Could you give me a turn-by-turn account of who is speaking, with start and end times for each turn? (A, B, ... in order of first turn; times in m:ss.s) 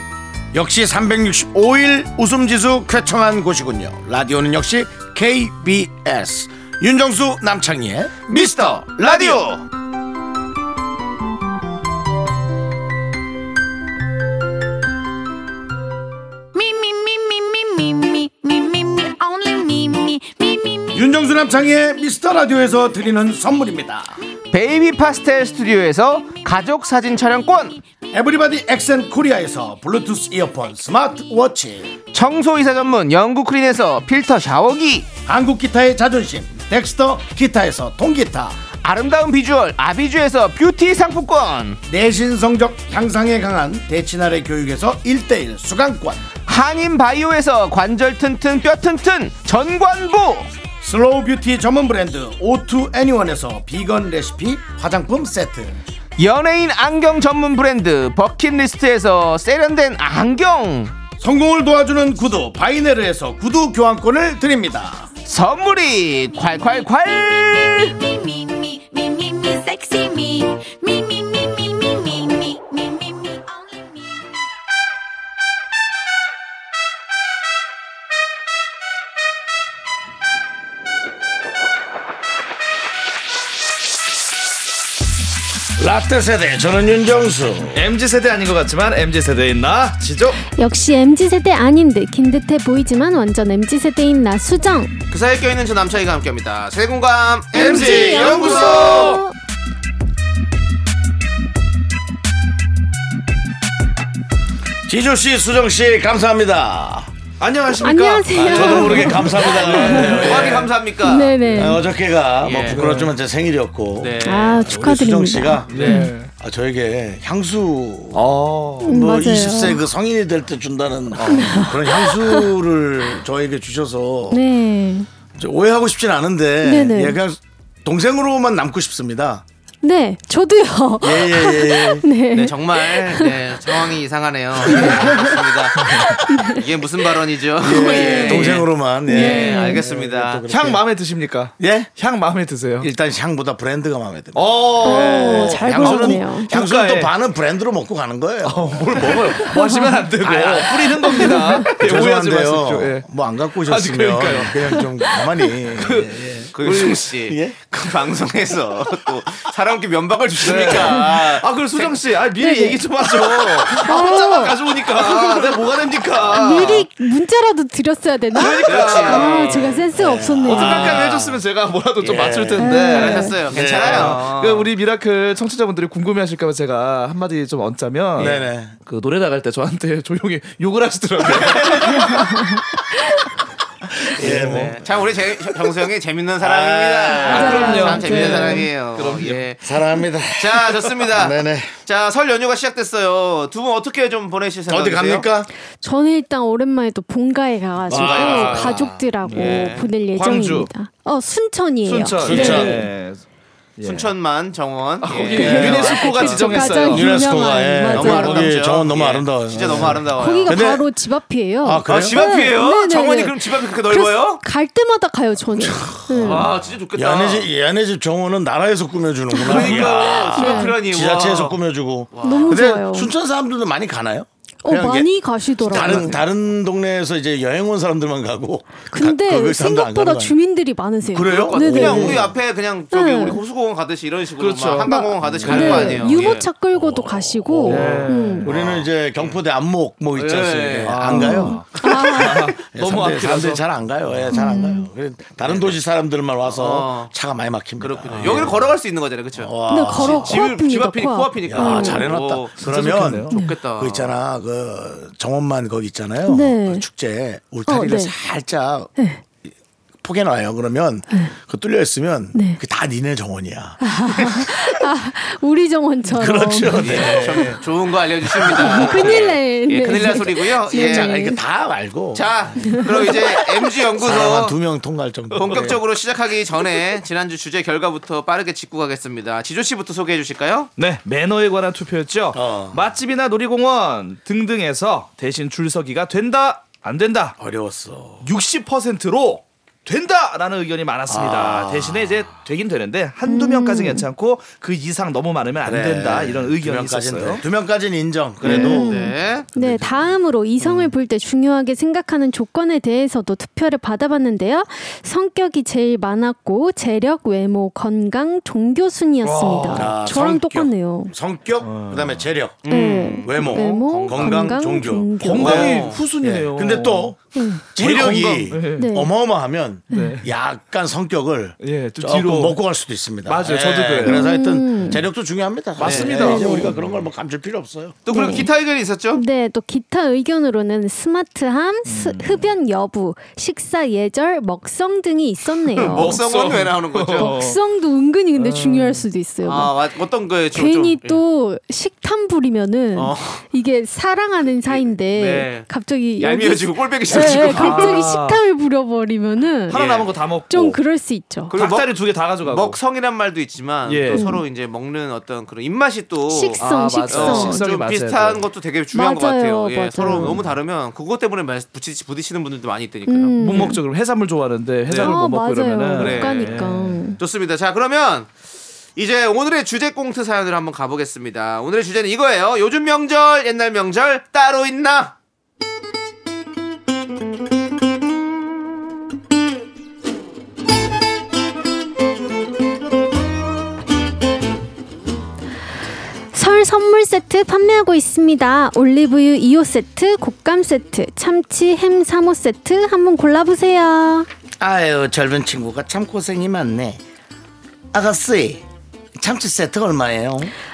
0:00.5-0:09.4 A
0:08.3-0:09.6 B
0:16.5-0:21.0 C
0:20.9-0:24.2 A
0:24.5-0:27.8 B
0:28.1-0:31.9 A
0:32.1-0:35.1 B
0:35.2-0:38.6 A
0:38.8-0:41.8 B
0:41.9-0:46.2 A
0:46.5-0:50.5 B
0:50.8-0:55.8 A
0:56.2-1:00.9 B
1:01.2-1:05.1 A
1:05.2-1:08.0 B
1:06.6-1:14.4 C
1:25.8-1:27.8 A
1:27.7-1:30.4 D
1:30.5-1:34.9 E
1:35.1-1:39.2 B
1:37.5-1:39.3 E
1:37.6-1:39.2 D
1:44.9-1:47.1 A
1:47.4-1:50.7 D
1:47.8-1:50.3 E
1:48.3-1:50.7 A
1:49.8-1:51.3 B
1:50.9-1:51.8 E
1:51.4-1:51.7 D
1:51.5-1:58.2 A
1:52.4-1:52.8 B
1:52.6-1:53.1 D
1:54.0-1:54.7 B
1:54.2-1:56.1 E
1:55.7-1:56.3 D
1:58.1-1:59.0 D
1:58.8-2:04.4 A
1:58.8-1:59.8 E
2:01.2-2:01.7 D
2:01.2-2:02.5 E
2:04.3-2:05.1 E
2:05.3-2:09.4 A
2:06.6-2:07.2 E
2:09.8-2:13.9 E
2:11.0-2:12.0 A
2:12.3-2:15.9 B
2:14.7-2:15.5 E
2:15.8-2:16.1 D
2:16.3-2:16.7 E
2:16.5-2:20.4 B
2:17.6-2:20.8 A
2:17.7-2:18.5 E
2:19.0-2:19.8 E
2:19.2-2:19.6 D
2:20.5-2:22.9 D
2:21.6-2:21.9 A
2:22.8-2:29.4 A
2:24.3-2:27.1 D
2:24.8-2:26.5 E
2:28.4-2:33.0 D
2:29.4-2:30.1 E
2:30.2-2:36.5 A
2:31.0-2:31.7 E
2:33.6-2:37.0 D
2:36.5-2:42.0 B
2:37.2-2:37.6 A
2:40.4-2:46.8 D
2:42.3-2:42.9 E
2:43.7-2:44.6 E
2:44.9-2:46.9 B
2:46.3-2:51.0 E
2:48.3-2:49.8 D
2:48.6-2:49.8 B
2:49.9-2:51.2 A
2:50.5-2:58.3 D
2:50.5-2:51.4 B
2:52.0-2:52.8 A
2:52.6-2:53.4 E
2:52.9-2:54.7 B
2:53.5-2:54.2 A
2:58.2-2:58.7 A
2:58.2-2:58.5 B
2:58.8-3:02.4 D
3:01.9-3:02.6 E
3:04.0-3:04.8 D
3:04.2-3:05.0 A
3:04.2-3:09.7 B
3:06.4-3:09.5 D
3:06.5-3:07.3 A
3:07.2-3:08.7 E
3:09.6-3:11.7 A
3:10.4-3:15.3 B
3:14.7-3:15.5 A
3:15.8-3:22.9 E
3:17.9-3:18.9 A
3:17.9-3:18.8 B
3:18.0-3:18.6 D
3:19.2-3:20.7 D
3:19.3-3:19.9 B
3:21.8-3:23.2 D
3:22.2-3:22.8 A
3:23.8-3:24.1 D
3:23.8-3:26.9 B
3:25.0-3:27.3 D
3:25.3-3:28.6 E
3:25.4-3:25.8 A
3:26.9-3:30.9 A
3:27.9-3:30.6 B
3:30.1-3:36.5 E
3:31.6-3:32.2 A
3:31.8-3:34.4 B
3:35.7-3:37.5 B
3:36.9-3:50.4 A
3:39.3-3:40.8 E
3:39.4-3:41.6 B
3:42.1-3:42.7 B
3:42.2-3:43.1 E
3:44.6-3:46.2 E
3:45.7-3:46.1 B
3:48.9-3:52.3 E
3:51.0-3:52.2 A
3:51.2-3:56.5 B
3:52.9-3:53.4 E
3:54.4-3:56.3 D
3:54.8-3:58.5 E
3:55.3-3:55.8 A
3:56.7-4:08.6 A
3:57.6-3:58.6 D
3:57.7-3:59.4 B
4:00.2-4:01.0 B
4:00.8-4:03.6 D
4:01.1-4:02.5 E
4:04.3-4:04.9 E
4:05.4-4:05.8 B
4:06.4-4:07.1 B
4:07.8-4:12.6 B
4:09.4-4:10.4 A
4:09.7-4:12.1 E
4:11.5-4:18.9 A
4:12.6-4:13.3 D
4:13.3-4:14.1 B
4:13.3-4:13.6 E
4:16.2-4:16.8 E
4:17.6-4:18.1 E
4:19.0-4:19.2 E
4:20.0-4:24.5 A
4:22.3-4:22.6 E
4:23.8-4:27.6 E
4:26.1-4:27.6 A
4:26.7-4:31.2 B
4:28.4-4:31.4 E
4:28.4-4:29.2 A
4:30.6-4:33.2 A
4:32.1-4:34.6 B
4:32.6-4:33.1 E
4:33.8-4:35.8 A
4:35.3-4:40.7 B
4:35.5-4:35.7 D
4:40.8-4:47.3 D
4:42.3-4:42.8 A
4:47.4-4:48.3 A
4:48.2-4:57.4 D
4:51.1-4:52.3 A
4:53.2-4:54.1 E
4:55.6-4:58.9 A
4:58.4-4:59.5 B
4:58.4-4:58.7 D
4:58.5-5:11.1 E
4:59.5-5:00.9 A
5:09.2-5:10.0 D
5:09.7-5:12.7 A
5:11.6-5:12.3 D
5:12.6-5:14.5 B
5:12.6-5:15.7 E
5:13.2-5:17.2 A
5:15.2-5:17.2 D
5:15.4-5:16.0 B
5:17.3-5:17.7 E
5:17.7-5:18.9 D
5:17.7-5:28.0 A
5:18.7-5:19.1 E
5:19.9-5:20.2 E
5:19.9-5:20.2 D
5:21.6-5:22.6 D
5:23.2-5:24.3 D
5:24.0-5:25.0 E
5:25.8-5:27.0 D
5:25.8-5:26.1 B
5:26.1-5:26.8 E
5:28.0-5:29.2 B
5:28.1-5:28.5 E
5:29.1-5:36.3 E
5:31.8-5:32.5 D
5:35.7-5:37.4 B
5:35.9-5:37.6 D
5:37.1-5:39.7 E
5:38.3-5:39.0 D
5:39.4-5:41.2 B
5:40.5-5:49.9 E
5:42.9-5:43.4 B
5:44.6-5:45.7 B
5:46.2-5:48.1 B
5:47.1-5:48.4 D
5:49.7-5:50.8 D
5:49.7-5:50.1 B
5:50.5-5:51.6 E
5:51.5-6:03.7 B
5:51.5-5:52.8 D
5:53.8-5:54.3 D
5:54.1-5:54.4 E
5:56.3-5:57.7 E
5:56.6-5:58.5 D
5:58.9-6:00.4 E
6:03.1-6:03.8 E
6:03.4-6:07.1 D
6:04.9-6:05.2 B
6:05.0-6:07.2 E
6:05.9-6:08.3 B
6:09.0-6:15.1 B
6:26.3-6:34.3 E
6:34.6-6:37.0 A
6:37.9-6:38.6 A
6:39.2-6:40.5 A